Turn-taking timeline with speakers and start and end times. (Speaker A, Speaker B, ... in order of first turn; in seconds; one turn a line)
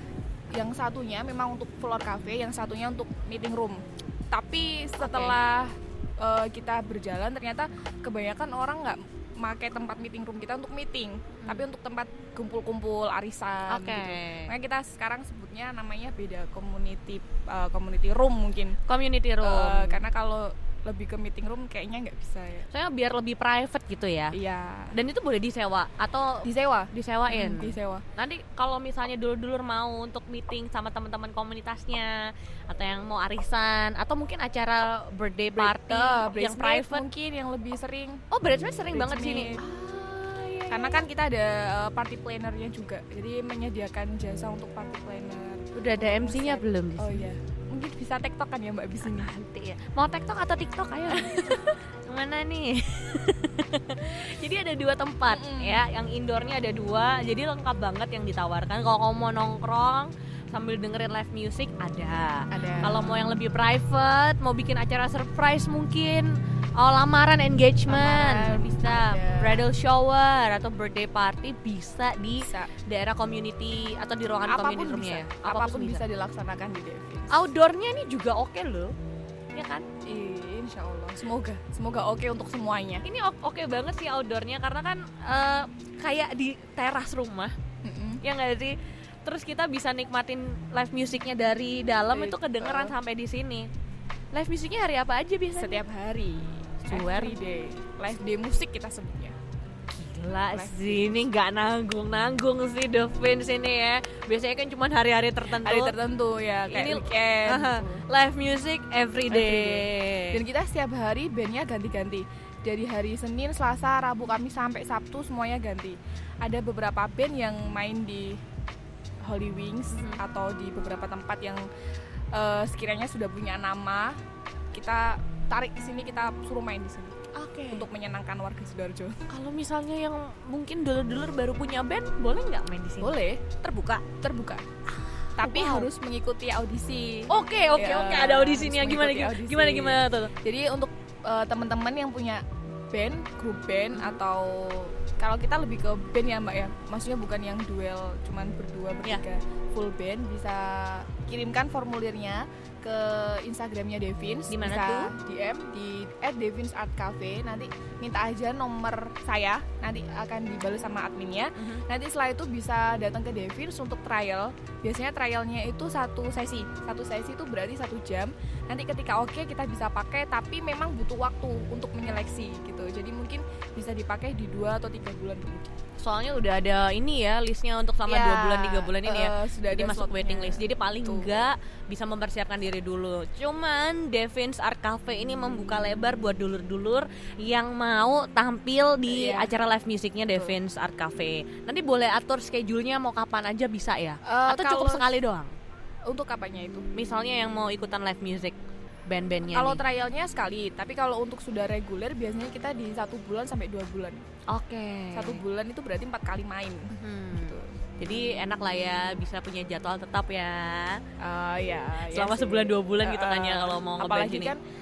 Speaker A: 0.5-18.8
Speaker B: 5.0-5.4
Speaker B: 13.7-14.5
Speaker B: 18.9-20.0
Speaker A: 19.4-22.7
Speaker B: 22.7-24.4
Speaker A: 24.3-24.9
Speaker B: 24.9-37.0
Speaker A: 26.4-28.0
Speaker A: 35.5-38.2
Speaker B: 38.3-41.1
Speaker A: 38.9-39.6
Speaker A: 40.7-49.3
Speaker B: 45.7-47.3
Speaker B: 49.0-76.0
Speaker A: 51.1-51.7
Speaker A: 55.3-55.8
Speaker A: 62.5-63.1
Speaker A: 67.9-69.7
Speaker A: 72.4-72.7
Speaker A: 74.4-77.4
Speaker B: 77.3-78.9
Speaker B: 79.5-79.9
Speaker A: 80.0-83.0
Speaker B: 83.0-87.5
Speaker A: 87.8-88.2
Speaker B: 88.2-93.7
Speaker A: 92.1-92.9
Speaker B: 94.3-95.8
Speaker A: 95.5-99.3
Speaker B: 96.8-97.3
Speaker B: 100.0-105.9
Speaker A: 100.5-101.3
Speaker A: 105.5-108.0
Speaker B: 106.7-110.4
Speaker A: 109.3-118.4
Speaker A: 119.2-121.7
Speaker B: 119.9-120.2
Speaker A: 122.3-124.2
Speaker A: 124.7-127.2
Speaker B: 127.3-127.9
Speaker A: 127.7-129.2
Speaker B: 129.3-134.0
Speaker A: 133.0-133.4
Speaker A: 134.1-134.6
Speaker B: 134.9-135.9
Speaker A: 135.4-175.7
Speaker B: 137.3-140.3
Speaker B: 143.9-144.2
Speaker B: 154.5-155.1
Speaker B: 161.6-161.8
Speaker B: 176.0-195.5
Speaker A: 178.1-181.5
Speaker A: 189.1-189.5
Speaker A: 194.2-195.1
Speaker A: 196.1-196.9
Speaker B: 196.9-198.6
Speaker B: 199.1-199.8
Speaker A: 199.5-204.2
Speaker B: 204.5-205.4
Speaker A: 205.1-207.8
Speaker B: 206.9-211.0
Speaker A: 211.2-214.6
Speaker B: 212.1-214.5